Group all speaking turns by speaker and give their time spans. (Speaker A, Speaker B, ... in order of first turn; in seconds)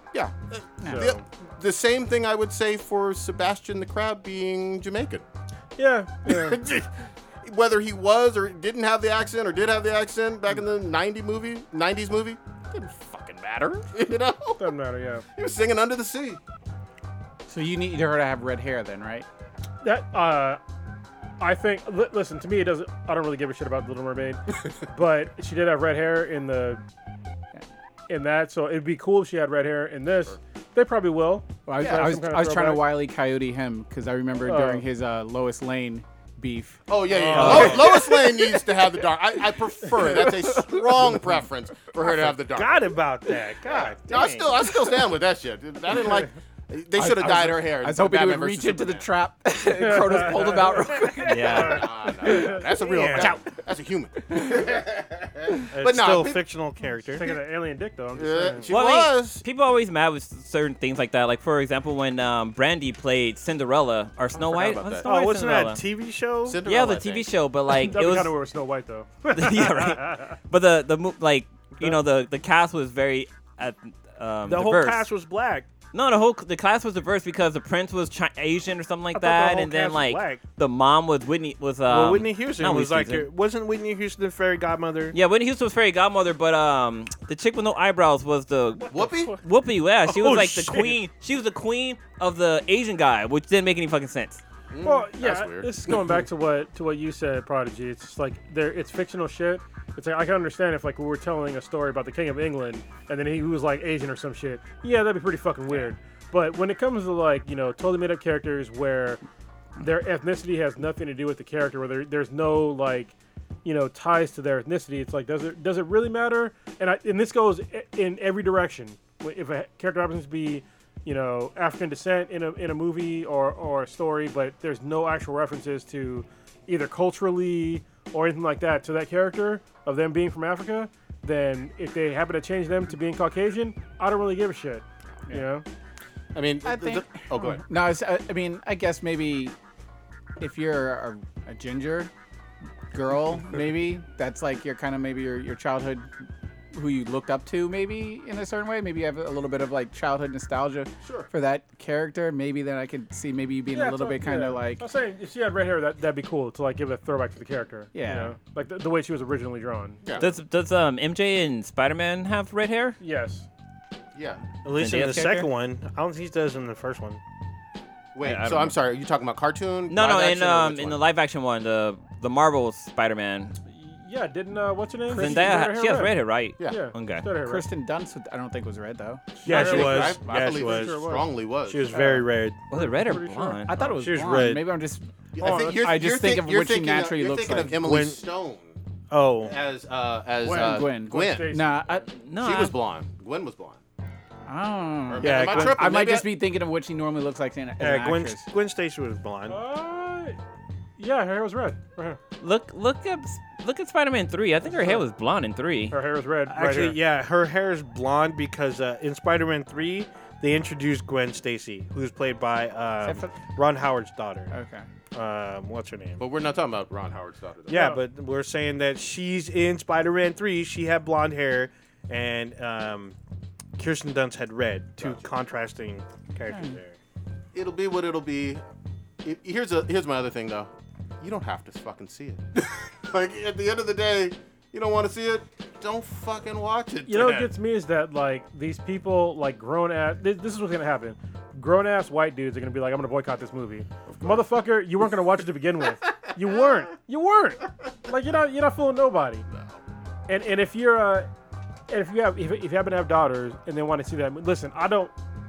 Speaker A: 0.1-5.3, 6.2-14.7, 15.3-16.4, 36.9-42.8, 44.1-49.0, 51.5-56.4, 58.1-59.4, 64.3-65.1, 66.5-67.3, 88.9-89.4, 94.7-96.1, 136.3-137.6, 151.0-151.3, 160.0-160.3, 164.2-164.4, 168.2-171.1, 176.6-176.8, 179.4-182.0, 185.3-188.8, 189.4-191.6, 192.4-193.8, 195.1-196.3, 216.2-218.0, 225.0-225.3, 227.5-228.6, 229.2-237.5, 244.1-244.5, 246.1-246.6, 249.5-249.8
Speaker B: 0.8-1.1, 17.5-19.3, 31.7-36.8, 37.4-37.8, 47.0-51.7, 53.1-53.4, 136.6-139.6, 140.4-142.1, 142.9-146.1, 146.7-154.9, 157.9-158.4, 175.1-175.6, 177.4-179.4, 183.7-187.8, 190.5-192.1, 194.5-198.5, 213.0-213.4, 214.5-214.9, 226.5-226.8
Speaker C: 0.9-1.2, 5.8-6.6, 14.6-15.2, 19.8-20.6, 21.4-26.8, 28.1-32.9, 34.4-34.9, 49.8-51.3, 52.3-52.6, 57.1-58.7, 67.7-70.3, 94.8-109.2, 109.8-135.7, 153.7-160.0, 163.0-163.5, 173.7-177.7, 179.5-181.3, 182.7-184.0, 185.4-186.0, 190.4-191.7, 199.5-200.4, 201.0-202.2, 204.7-205.0, 205.9-207.0, 217.7-218.0, 237.1-249.4, 250.3-251.3, 251.9-255.1
Speaker D: 37.1-37.9, 42.0-44.5, 52.8-53.4, 55.7-57.3, 58.7-59.1, 65.0-66.6, 74.5-75.7, 79.1-80.4, 81.9-85.2, 90.1-91.0, 164.6-167.2, 179.4-181.1, 181.7-182.6, 184.0-184.7, 187.8-188.2, 189.1-189.5, 195.2-195.9, 197.8-199.6, 206.5-214.5, 215.1-216.2, 217.7-223.2, 223.8-227.0
Speaker E: 37.4-37.8, 51.3-51.9, 58.7-65.8, 66.7-68.3, 69.3-75.1, 75.9-83.3, 85.1-94.4, 160.2-163.0, 164.7-165.5, 168.2-168.8, 169.9-173.6, 175.1-177.3, 182.7-183.7, 192.2-192.7, 202.4-206.0